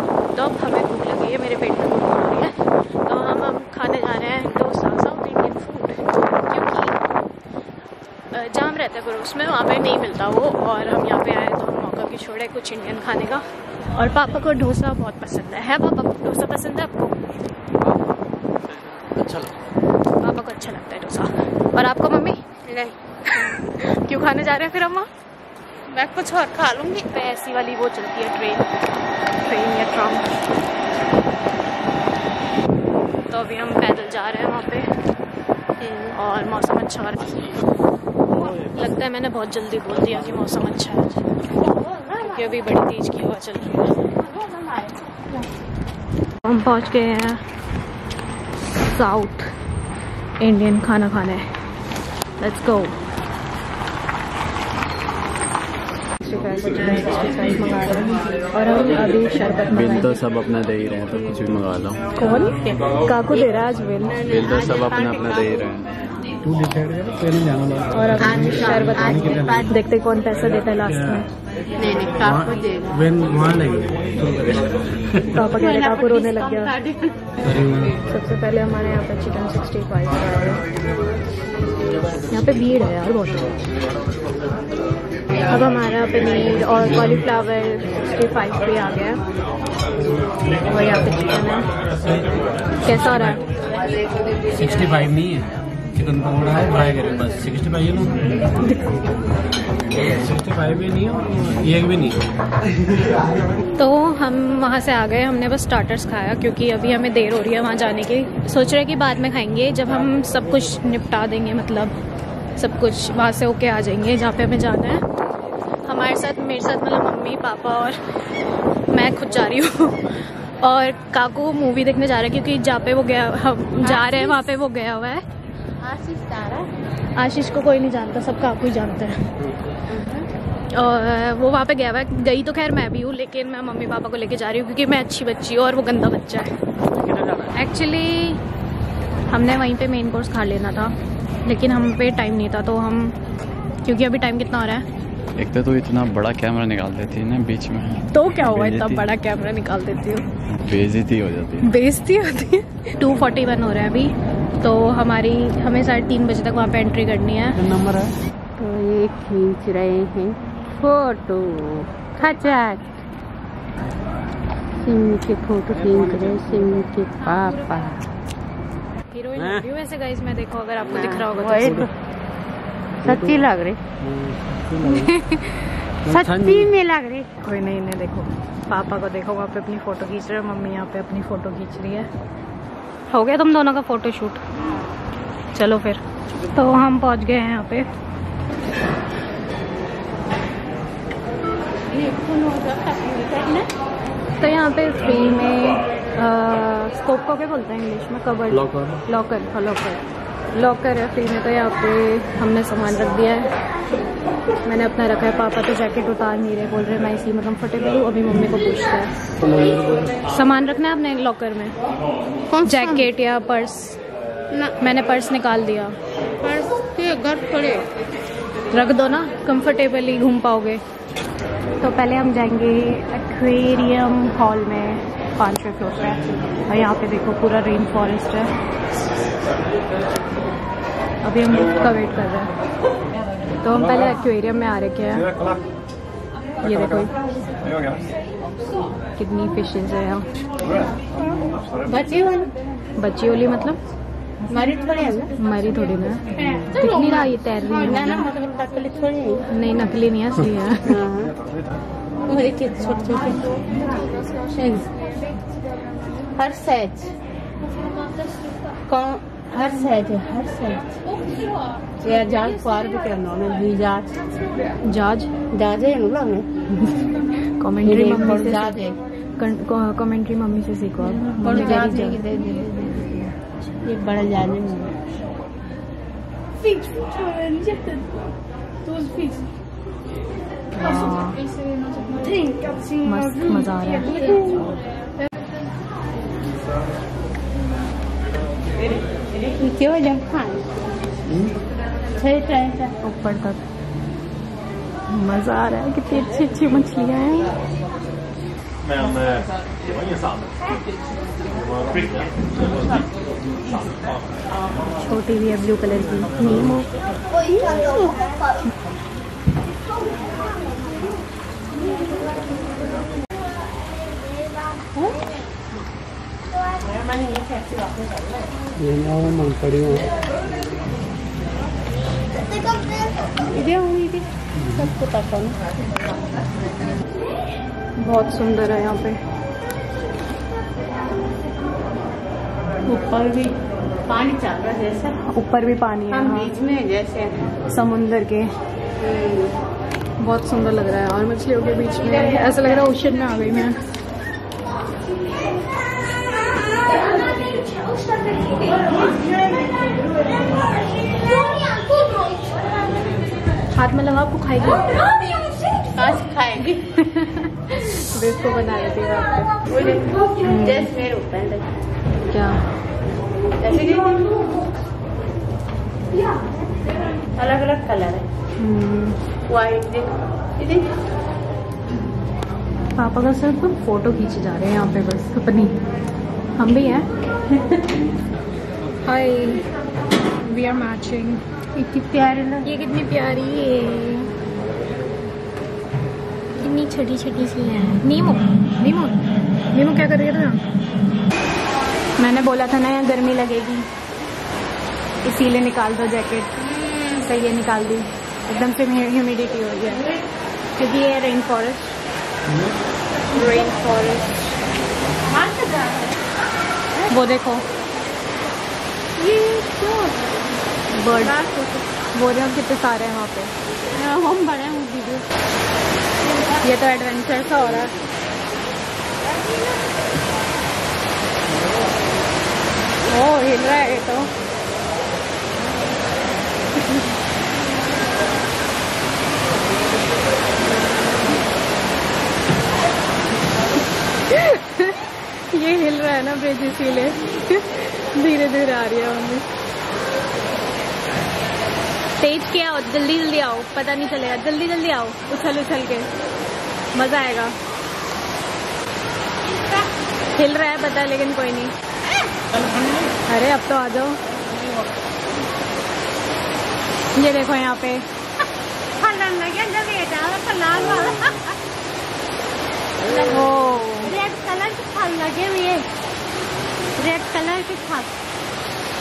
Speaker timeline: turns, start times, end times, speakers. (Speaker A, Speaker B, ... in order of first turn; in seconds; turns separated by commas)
Speaker A: 0.3-7.0, Speaker A: 8.3-17.2, Speaker A: 20.2-22.4, Speaker B: 22.7-23.0, Speaker A: 23.3-25.1, Speaker B: 25.9-27.0, Speaker A: 27.1-28.7, Speaker A: 29.4-30.3, Speaker A: 33.3-34.9, Speaker B: 35.8-36.1, Speaker A: 36.1-37.5, Speaker A: 38.5-41.4, Speaker B: 41.5-42.6, Speaker A: 42.2-44.0, Speaker B: 44.2-45.5, Speaker A: 46.4-47.4, Speaker A: 48.8-49.5, Speaker A: 50.4-51.4, Speaker A: 52.4-53.0, Speaker A: 56.2-60.2, Speaker C: 59.7-62.0, Speaker A: 62.2-64.3, Speaker B: 62.6-63.5, Speaker B: 64.2-65.6, Speaker C: 64.2-65.9, Speaker D: 66.4-69.7, Speaker A: 67.9-71.3, Speaker B: 68.2-69.7, Speaker D: 70.8-71.2, Speaker B: 71.8-73.0, Speaker D: 72.2-75.3, Speaker A: 75.3-76.7, Speaker B: 75.4-77.2, Speaker D: 77.4-78.0, Speaker A: 78.1-80.6, Speaker A: 82.3-83.4, Speaker A: 85.5-89.2, Speaker A: 90.7-91.7, Speaker D: 92.0-92.3, Speaker A: 92.8-93.4, Speaker D: 92.9-93.3, Speaker D: 94.5-98.3, Speaker D: 99.9-102.2, Speaker A: 103.8-112.0, Speaker A: 112.6-115.0, Speaker A: 115.8-118.0, Speaker A: 118.9-125.2, Speaker B: 123.8-124.5, Speaker B: 125.8-126.7, Speaker A: 127.2-129.2, Speaker B: 129.9-130.3, Speaker A: 130.7-136.5, Speaker D: 136.9-137.5, Speaker A: 137.5-138.4, Speaker A: 139.3-140.9, Speaker A: 141.4-143.2, Speaker A: 143.8-144.8, Speaker C: 145.4-149.1, Speaker A: 148.1-150.2, Speaker C: 150.5-151.7, Speaker A: 151.6-157.6, Speaker D: 157.5-158.2, Speaker B: 158.6-163.0, Speaker B: 164.8-168.0, Speaker D: 165.8-166.7, Speaker A: 167.2-167.9, Speaker A: 169.1-171.8, Speaker D: 169.3-169.6, Speaker B: 170.9-171.9, Speaker D: 171.6-171.9, Speaker D: 173.0-173.4, Speaker B: 173.0-173.8, Speaker D: 174.0-175.2, Speaker A: 174.8-175.7, Speaker D: 176.0-176.7, Speaker B: 176.1-177.3, Speaker A: 177.4-182.1, Speaker A: 183.1-184.4, Speaker B: 184.6-184.9, Speaker A: 185.5-187.9, Speaker B: 191.9-193.7, Speaker A: 194.4-200.0, Speaker A: 200.5-203.5, Speaker A: 204.6-209.1, Speaker D: 209.4-210.1, Speaker A: 210.2-211.8, Speaker B: 212.5-213.1, Speaker A: 212.6-214.0, Speaker A: 214.8-215.9, Speaker B: 216.4-217.9, Speaker A: 218.7-220.8, Speaker A: 221.8-228.5, Speaker A: 231.2-232.5, Speaker A: 233.6-235.3, Speaker A: 236.6-237.1, Speaker A: 239.2-240.3, Speaker B: 241.2-242.5, Speaker A: 243.0-243.8, Speaker B: 244.5-245.3, Speaker A: 245.3-248.3, Speaker B: 246.4-249.4, Speaker A: 249.5-251.0, Speaker B: 250.9-251.3, Speaker B: 252.3-255.2, Speaker B: 256.4-257.1, Speaker B: 258.9-261.0, Speaker B: 262.0-264.3, Speaker A: 264.8-265.3, Speaker B: 265.5-266.5, Speaker A: 266.7-268.8, Speaker B: 267.8-269.0, Speaker A: 269.4-272.2, Speaker B: 271.1-273.3, Speaker B: 273.8-274.9, Speaker B: 276.6-278.1, Speaker B: 278.9-279.5, Speaker A: 280.7-281.4, Speaker B: 282.1-284.7, Speaker A: 283.0-284.1, Speaker B: 289.1-290.8, Speaker D: 291.3-291.6, Speaker B: 292.1-292.9, Speaker A: 293.0-293.6, Speaker A: 295.1-297.5, Speaker A: 305.0-306.9, Speaker B: 307.3-308.4, Speaker B: 314.9-315.2, Speaker B: 316.8-318.4, Speaker D: 318.8-320.1, Speaker B: 323.4-325.6, Speaker D: 324.6-324.9, Speaker A: 328.0-329.2, Speaker B: 332.9-335.2, Speaker A: 335.2-336.5, Speaker B: 336.1-337.5, Speaker A: 337.6-338.5, Speaker B: 339.0-339.6, Speaker A: 340.2-343.8, Speaker A: 353.7-354.9, Speaker B: 355.9-356.8, Speaker A: 357.0-359.6, Speaker B: 359.7-361.7, Speaker A: 360.4-360.9, Speaker A: 362.3-362.6, Speaker B: 363.6-364.6, Speaker B: 367.3-368.3, Speaker A: 368.6-369.2, Speaker B: 369.5-370.9, Speaker A: 372.9-375.8, Speaker A: 376.6-377.1, Speaker B: 377.5-377.9, Speaker A: 379.0-379.6, Speaker A: 380.4-381.4, Speaker B: 381.8-382.7, Speaker A: 382.6-384.3, Speaker A: 386.6-390.6, Speaker A: 392.2-393.9, Speaker A: 395.2-396.5, Speaker B: 396.6-397.3, Speaker A: 397.2-400.0, Speaker A: 400.8-402.0, Speaker A: 403.3-404.2, Speaker B: 403.3-404.2, Speaker B: 405.2-406.2, Speaker A: 407.1-407.6, Speaker B: 409.2-410.4, Speaker A: 410.9-411.4, Speaker B: 411.1-411.9, Speaker A: 412.1-413.5, Speaker B: 413.9-415.3, Speaker B: 416.2-416.7, Speaker A: 416.6-417.9, Speaker B: 419.2-419.7, Speaker A: 423.1-424.3, Speaker A: 434.3-439.4, Speaker A: 442.2-446.1, Speaker A: 446.9-447.5, Speaker A: 450.3-451.7, Speaker B: 452.5-453.1, Speaker A: 453.2-454.2, Speaker B: 454.4-455.1, Speaker A: 457.1-458.0, Speaker B: 459.0-461.5, Speaker B: 463.0-465.9, Speaker A: 463.3-464.1, Speaker B: 466.9-468.1